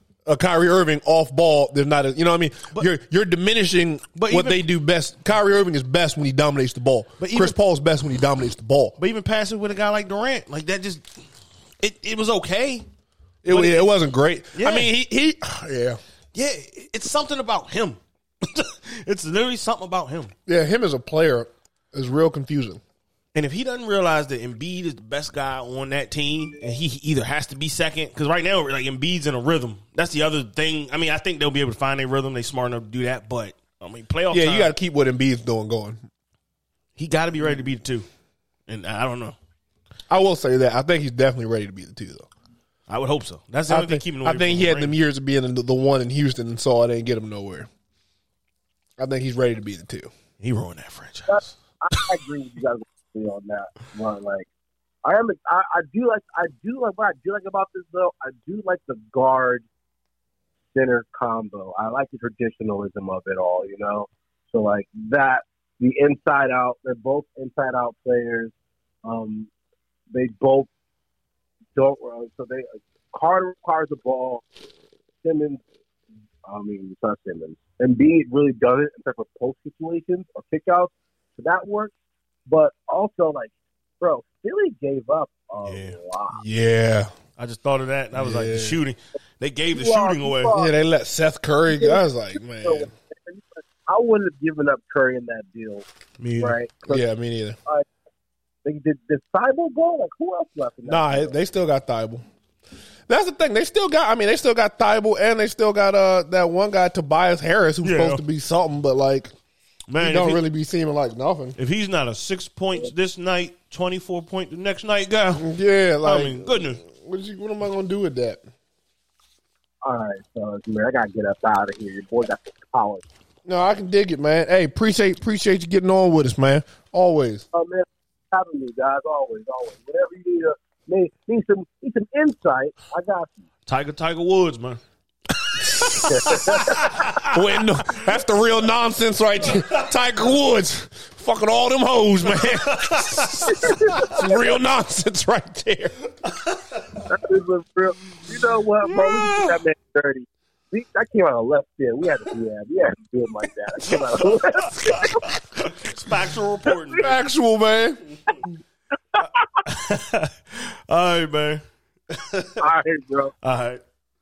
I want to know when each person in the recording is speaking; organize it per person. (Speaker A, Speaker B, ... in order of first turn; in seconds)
Speaker A: 0.2-8.9, 13.4-16.0, 20.5-22.8, 34.3-36.0, 40.1-42.3, 43.7-47.7, 49.0-50.1, 86.3-87.1, 88.1-88.8, 90.5-92.9, 96.9-97.6, 100.8-102.2, 103.1-109.3, 110.0-111.5, 115.4-118.4, 123.5-127.4, 137.2-145.9, 157.0-158.0
Speaker B: 4.1-4.6, 7.2-7.5, 9.0-11.0, 11.8-12.8, 13.5-13.9, 14.5-14.9, 16.3-20.3, 23.3-34.7, 37.0-38.0, 38.7-39.4, 42.9-45.0, 50.4-51.5, 85.6-86.0, 87.4-90.5, 96.2-96.5, 107.8-108.2, 109.9-110.4, 111.6-115.5, 116.0-116.8, 133.7-134.8, 135.6-137.6, 142.3-144.2, 146.2-146.6, 153.9-157.2, 159.6-162.6, 163.4-163.8
Speaker C: 51.3-54.5, 55.0-59.6, 60.7-68.5, 69.0-69.5, 70.1-70.7, 71.8-74.4, 75.2-75.6, 76.4-81.9, 82.5-86.4, 89.7-90.7, 91.7-92.0, 92.6-95.8, 96.4-97.0, 98.6-101.3, 119.8-123.0, 127.5-133.4, 135.9-137.1, 143.5-144.2, 147.1-155.2, 162.6-163.3